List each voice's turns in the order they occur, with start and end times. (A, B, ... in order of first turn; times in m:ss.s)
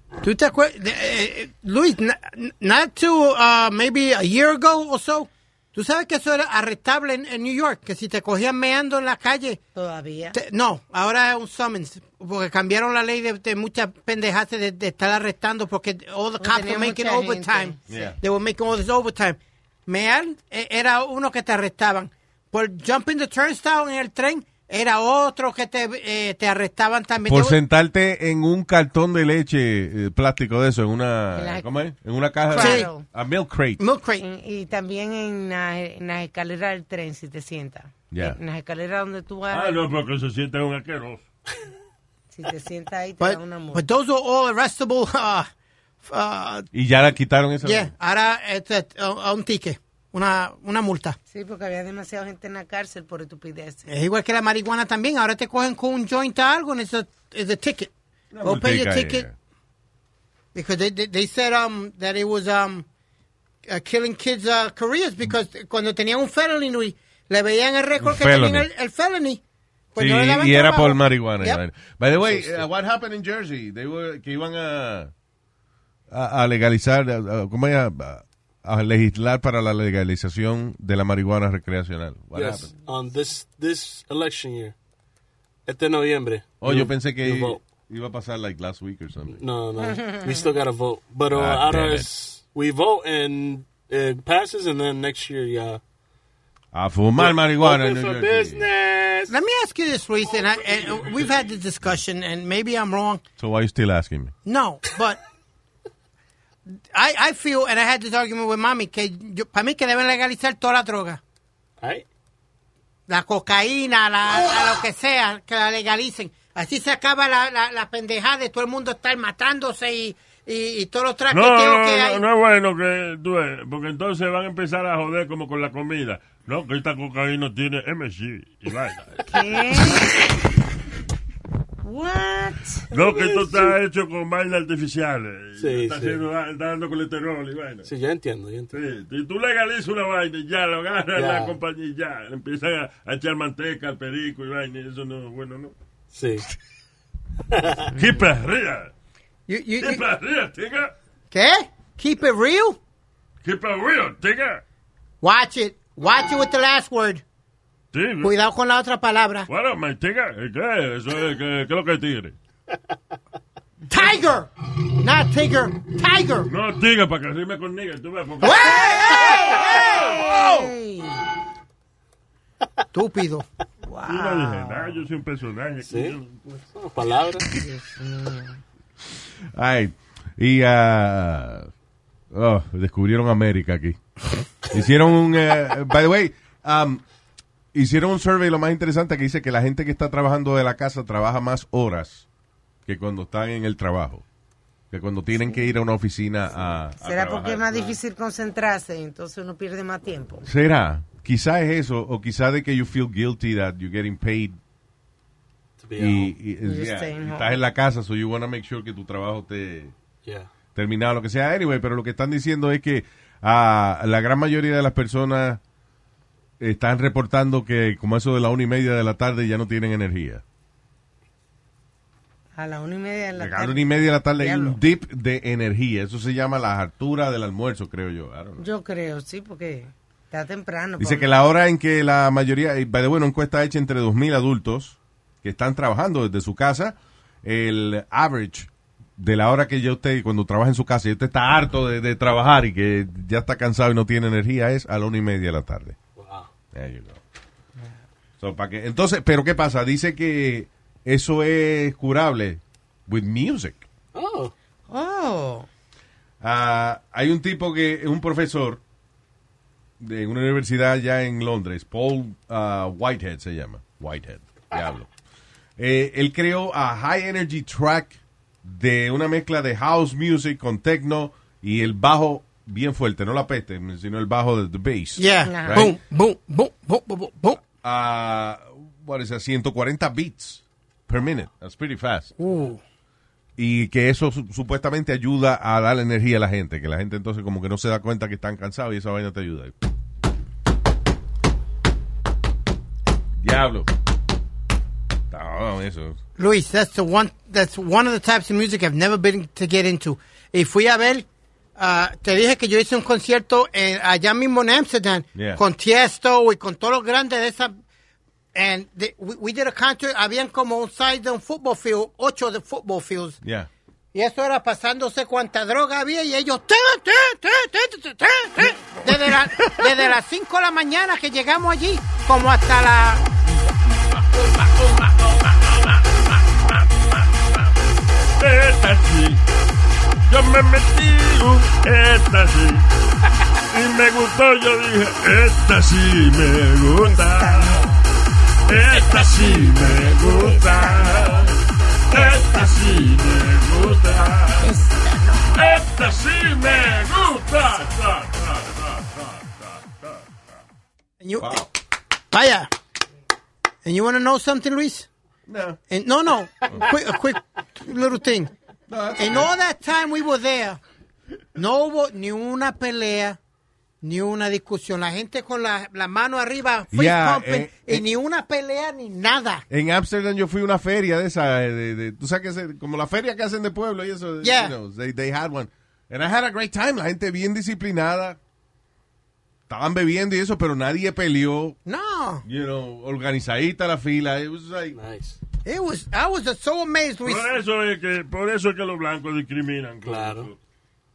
0:00.2-0:09.6 A
0:09.8-0:10.4 B
0:10.3-0:27.6 A
0:16.4-0:18.1 B
0:17.9-0:18.2 C
0:27.3-0:33.8 C
0:31.3-0:31.7 B
0:32.5-0:33.0 B
0:32.6-0:32.9 A
0:33.8-0:34.2 A
0:34.2-0:39.8 B
0:38.1-0:38.4 C
0:39.5-0:41.2 D
0:42.3-0:43.8 B
0:43.2-0:45.5 A
0:46.0-0:46.7 A
0:46.7-0:47.9 C
0:47.6-0:51.2 A
0:51.3-0:53.9 B
0:53.9-0:57.9 A
0:58.3-0:59.3 C
0:58.4-0:59.3 A
1:00.6-1:02.9 A
1:03.7-1:09.4 A
1:08.0-1:08.7 C
1:09.9-1:11.6 A
1:10.0-1:15.1 C
1:12.2-1:12.6 E
1:16.1-1:22.7 C
1:22.3-1:24.8 E
1:25.7-1:27.6 E
1:26.6-1:29.4 C
1:29.3-1:35.8 E
1:29.9-1:30.2 B
1:31.3-1:32.1 C
1:36.7-1:38.7 C
1:37.2-1:39.4 E
1:39.3-1:43.2 A
1:43.4-1:44.4 C
1:44.4-1:45.2 A
1:46.9-1:51.2 A
1:51.8-1:52.0 E
1:53.1-2:02.2 A
2:01.3-2:09.2 D
2:09.3-2:10.2 B
2:11.8-2:12.9 B
2:12.9-2:17.9 D
2:13.0-2:13.7 E
2:15.6-2:16.2 E
2:17.9-2:18.7 E
2:18.7-2:25.7 D
2:21.2-2:21.6 E
2:26.1-2:26.5 E
2:27.5-2:27.9 E
2:27.9-2:28.9 D
2:29.5-2:30.0 A
2:29.8-2:30.9 D
2:31.3-2:32.8 A
2:33.4-2:34.6 D
2:35.2-2:37.2 A
2:37.9-2:38.4 D
2:38.2-2:39.5 A
2:39.5-2:42.4 D
2:43.9-2:46.5 A
2:46.5-2:49.1 D
2:48.4-2:50.2 A
2:48.6-2:51.3 B
2:49.8-2:50.7 C
2:52.9-2:53.5 A
2:53.9-2:54.9 B
2:54.1-2:56.4 D
2:55.9-2:57.5 E
2:57.6-2:58.6 B
2:59.5-3:01.7 C
3:02.3-3:07.0 C
3:07.7-3:12.3 C
3:12.9-3:14.2 C
3:14.9-3:18.0 C
3:17.0-3:20.5 B
3:20.4-3:24.6 C
3:25.8-3:26.3 E
3:26.0-3:29.9 C
3:26.6-3:27.6 B
3:30.2-3:30.5 E
3:30.8-3:35.6 C
3:36.6-3:40.4 C
3:42.6-3:44.8 B
3:43.4-3:48.7 C
3:48.6-3:51.3 B
3:51.0-4:06.0 C
4:06.2-4:06.5 E
4:06.7-4:07.2 C
4:08.4-4:13.8 C
4:14.1-4:14.5 E
4:14.9-4:15.7 B
4:16.4-4:18.8 C
4:20.0-4:25.1 C
4:25.8-4:36.0 C
4:35.2-4:37.6 A
4:35.4-4:35.9 B
4:37.8-4:42.3 C
4:42.4-4:42.8 A
4:43.6-4:49.7 C
4:53.4-4:53.9 C
4:55.3-4:56.2 C
4:56.4-5:07.8 A
5:05.4-5:05.6 C
5:08.5-5:13.4 A
5:13.4-5:13.7 C
5:14.1-5:23.3 A
5:24.2-5:27.7 D
5:28.4-5:29.4 D
5:30.3-5:32.8 D
5:33.7-5:38.0 D
5:37.0-5:38.0 B
5:38.7-5:44.7 D
5:38.8-5:41.5 B
5:42.1-5:42.8 B
5:44.6-5:45.7 B
5:45.6-5:50.3 D
5:51.2-5:51.6 A
5:51.4-5:51.7 C
5:52.3-5:52.7 A
5:53.8-5:55.1 A
5:55.5-5:55.8 C
5:55.9-5:58.5 A
5:58.9-5:59.5 C
5:59.2-6:00.8 A
6:01.6-6:03.4 A
6:04.0-6:09.7 A
6:06.9-6:08.1 C
6:09.7-6:18.4 C
6:14.4-6:14.7 A
6:19.7-6:21.8 C
6:21.9-6:22.4 A
6:22.4-6:25.0 C
6:24.9-6:25.4 E
6:25.6-6:27.6 A
6:27.2-6:30.6 D
6:30.0-6:30.5 E